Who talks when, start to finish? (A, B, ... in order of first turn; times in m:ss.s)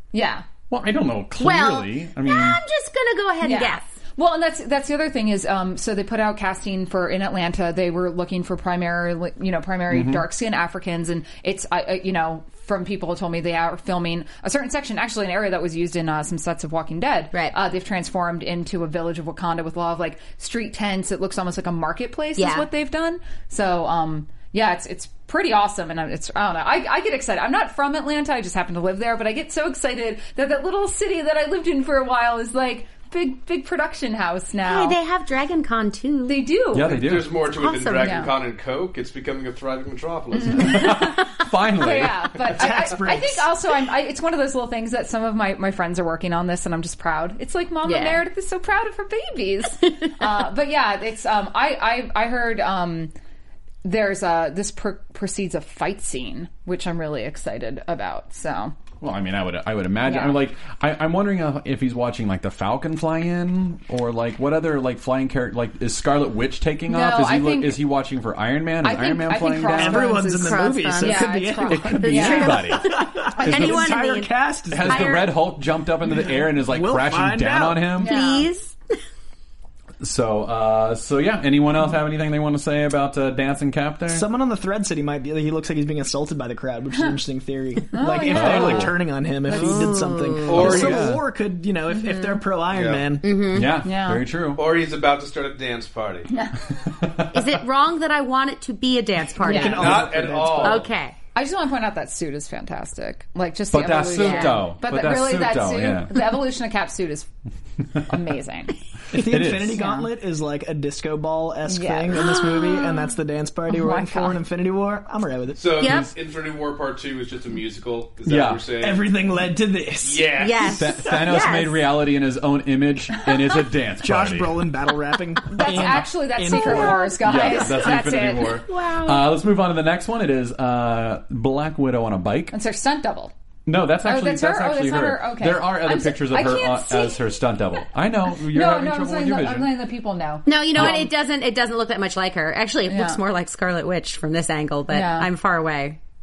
0:00.1-0:00.4 A
0:00.7-0:02.6 B
0:01.4-0:03.9 C
0:03.4-0:35.0 A
0:09.9-0:10.2 B
0:22.4-0:22.6 C
0:34.6-0:36.5 C
0:36.2-0:36.9 A
0:36.7-0:37.4 B
0:36.8-0:40.9 D
0:37.5-0:38.3 C
0:40.4-0:53.1 A
0:40.5-0:42.4 B
0:42.5-0:43.5 E
0:47.8-0:48.2 C
0:53.8-0:58.8 A
0:59.0-1:10.2 B
1:00.0-1:00.4 A
1:06.9-1:07.8 A
1:08.8-1:12.6 A
1:09.7-1:15.2 E
1:10.4-1:11.5 C
1:11.7-1:12.9 B
1:12.0-1:15.3 C
1:13.4-1:13.9 B
1:14.7-1:18.1 B
1:16.4-1:17.9 E
1:18.0-1:18.5 A
1:18.0-1:18.8 C
1:20.0-1:24.3 B
1:24.1-1:33.3 E
1:27.9-1:28.9 A
1:28.3-1:28.9 B
1:29.5-1:29.9 A
1:29.5-1:30.9 C
1:30.4-1:31.1 D
1:30.5-1:31.2 B
1:32.7-1:33.1 D
1:33.2-1:33.8 C
1:33.5-1:34.6 B
1:33.8-1:34.2 A
1:34.5-1:36.3 D
1:36.3-1:36.6 A
1:36.8-1:37.5 B
1:37.3-1:41.1 C
1:39.4-1:40.9 E
1:39.4-1:39.9 A
1:39.6-1:40.9 D
1:41.3-1:47.3 A
1:43.7-1:46.3 B
1:44.1-1:44.6 C
1:48.1-1:48.8 A
1:49.1-1:55.6 E
1:49.1-1:49.8 B
1:49.7-1:50.1 A
1:51.7-1:52.3 A
1:52.2-1:52.8 C
1:53.7-1:54.4 A
1:55.5-1:59.1 D
1:55.8-1:56.1 C
1:58.2-1:58.6 B
1:58.8-2:00.7 E
2:00.0-2:01.0 D
2:00.4-2:01.8 C
2:00.7-2:04.6 B
2:04.0-2:07.1 E
2:05.5-2:08.6 A
2:06.5-2:07.8 C
2:07.2-2:12.6 B
2:08.5-2:09.3 C
2:12.5-2:13.3 A
2:13.6-2:19.7 B
2:14.0-2:17.3 A
2:18.5-2:21.1 A
2:20.4-2:26.0 C
2:20.7-2:21.1 B
2:22.9-2:23.2 A
2:24.9-2:25.3 A